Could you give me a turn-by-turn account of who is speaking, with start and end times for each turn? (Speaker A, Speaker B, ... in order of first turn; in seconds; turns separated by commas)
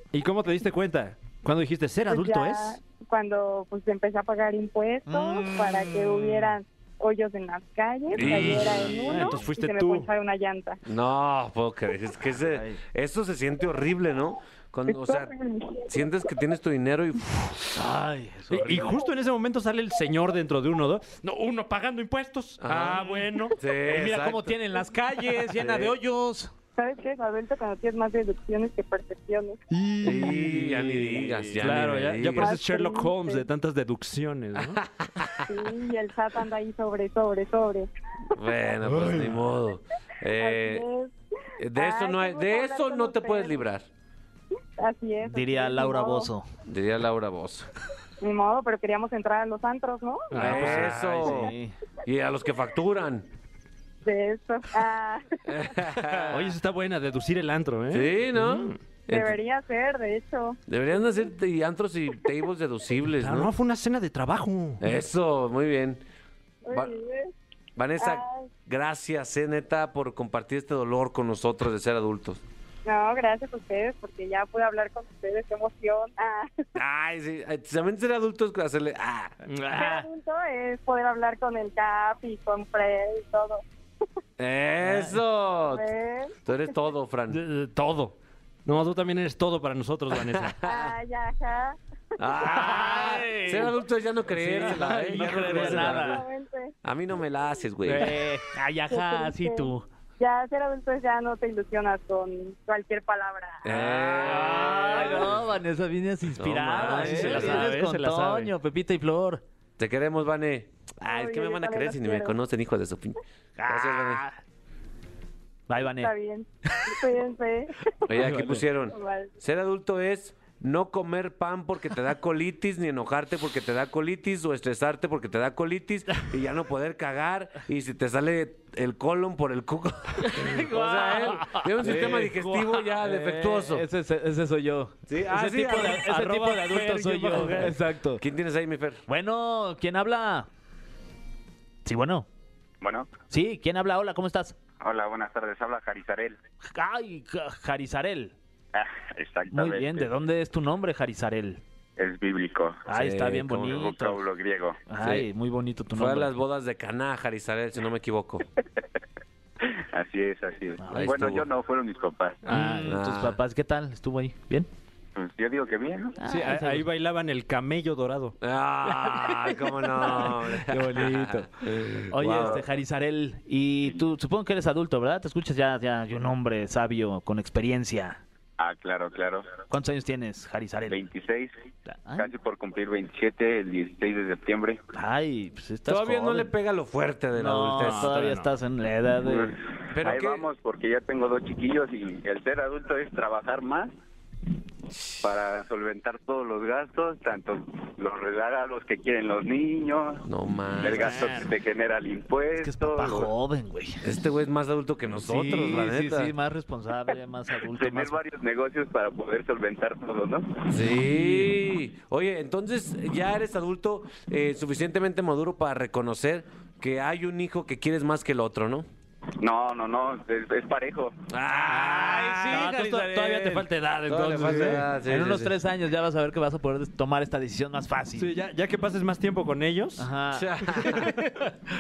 Speaker A: 0.1-2.8, Speaker B: 2.1-10.8, Speaker C: 5.1-6.5, Speaker D: 8.1-9.3, Speaker A: 8.2-10.1, Speaker D: 10.8-15.3, Speaker C: 12.5-12.8, Speaker B: 14.9-16.0, Speaker D: 15.8-17.6, Speaker C: 17.8-19.0, Speaker A: 18.5-23.6, Speaker D: 22.6-24.6, Speaker C: 23.9-26.5, Speaker D: 25.6-25.9, Speaker B: 26.8-29.6, Speaker A: 29.7-34.8, Speaker C: 30.0-31.9, Speaker D: 30.0-32.6, Speaker B: 32.4-33.5, Speaker D: 34.6-35.5, Speaker B: 35.5-37.9, Speaker D: 38.3-40.9, Speaker A: 39.0-39.3, Speaker B: 40.4-41.1, Speaker D: 41.6-43.9, Speaker B: 41.7-43.6, Speaker B: 44.8-46.3, Speaker C: 45.2-46.5, Speaker D: 46.7-47.7, Speaker B: 48.2-50.3, Speaker A: 50.3-51.3, Speaker D: 50.3-51.5, Speaker C: 50.4-51.7, Speaker D: 52.0-53.3, Speaker B: 54.0-55.7, Speaker D: 55.5-56.5, Speaker A: 56.2-58.8, Speaker D: 57.9-59.4, Speaker B: 59.1-60.6, Speaker D: 60.7-63.5, Speaker A: 63.2-64.8, Speaker D: 64.8-66.0, Speaker B: 66.7-67.3, Speaker D: 67.8-72.4, Speaker B: 68.0-68.5, Speaker B: 72.9-76.6, Speaker D: 76.8-79.3, Speaker A: 79.5-80.1, Speaker B: 79.7-83.6, Speaker D: 84.4-85.9, Speaker C: 84.8-85.2, Speaker B: 85.7-86.4, Speaker D: 86.5-87.4, Speaker A: 87.3-88.2, Speaker A: 88.7-90.6, Speaker D: 90.4-91.0, Speaker B: 90.6-91.8, Speaker D: 92.2-96.2, Speaker C: 92.4-93.8, Speaker A: 94.3-96.0, Speaker C: 94.5-96.2, Speaker B: 95.9-96.7, Speaker D: 96.8-98.1, Speaker A: 97.9-98.2, Speaker C: 97.9-99.8, Speaker B: 98.9-103.7, Speaker D: 103.6-105.3, Speaker C: 103.8-109.4, Speaker A: 103.9-105.3, Speaker D: 106.4-107.7, Speaker A: 106.7-108.5, Speaker D: 109.8-114.2, Speaker B: 111.0-112.3, Speaker C: 113.6-114.3, Speaker C: 115.7-116.1, Speaker B: 116.0-117.7, Speaker C: 116.7-117.0, Speaker D: 118.1-133.8, Speaker C: 118.2-118.6, Speaker B: 118.9-119.3, Speaker A: 130.4-132.7, Speaker C: 130.5-132.3, Speaker C: 133.0-138.2, Speaker D: 135.1-136.1, Speaker A: 135.9-137.8, Speaker D: 138.2-139.0, Speaker C: 139.1-140.5, Speaker C: 141.8-142.3, Speaker E: 142.8-143.1, Speaker C: 143.3-144.6, Speaker E: 144.8-146.4, Speaker C: 146.7-148.3, Speaker E: 148.8-150.1, Speaker C: 149.5-151.6, Speaker E: 152.0-152.8, Speaker D: 152.9-153.9, Speaker C: 152.9-154.2, Speaker E: 153.7-154.8, Speaker C: 154.9-156.4, Speaker D: 155.0-155.3, Speaker D: 155.9-158.4, Speaker E: 159.6-162.5, Speaker C: 160.8-161.4, Speaker D: 160.9-161.4, Speaker A: 162.5-162.9, Speaker C: 162.5-164.7, Speaker D: 162.8-163.4, Speaker E: 165.2-166.2, Speaker C: 166.2-166.8, Speaker A: 166.2-168.4, Speaker D: 168.4-172.6, Speaker C: 170.0-171.5, Speaker C: 172.1-178.2, Speaker E: 172.3-172.6, Speaker E: 178.6-179.5, Speaker C: 179.7-181.1, Speaker E: 180.9-181.5, Speaker C: 181.9-182.3, Speaker E: 182.2-184.8, Speaker C: 184.9-186.5, Speaker D: 185.9-188.2, Speaker C: 187.4-189.6, Speaker A: 187.8-188.5, Speaker E: 189.2-193.9, Speaker D: 189.9-190.5, Speaker D: 194.9-195.2, Speaker E: 195.2-200.2, Speaker D: 200.3-201.4, Speaker E: 200.8-203.3, Speaker A: 200.8-201.5, Speaker C: 202.6-204.1, Speaker D: 204.0-206.3, Speaker C: 205.2-208.2, Speaker E: 207.7-210.7, Speaker D: 210.7-218.9, Speaker C: 211.1-211.4, Speaker E: 219.4-221.2, Speaker D: 221.3-222.6, Speaker C: 221.5-223.7, Speaker A: 221.9-224.9, Speaker D: 224.1-225.5, Speaker C: 224.5-228.3, Speaker A: 228.2-230.1, Speaker C: 230.0-231.1, Speaker D: 230.3-231.1, Speaker A: 230.9-231.4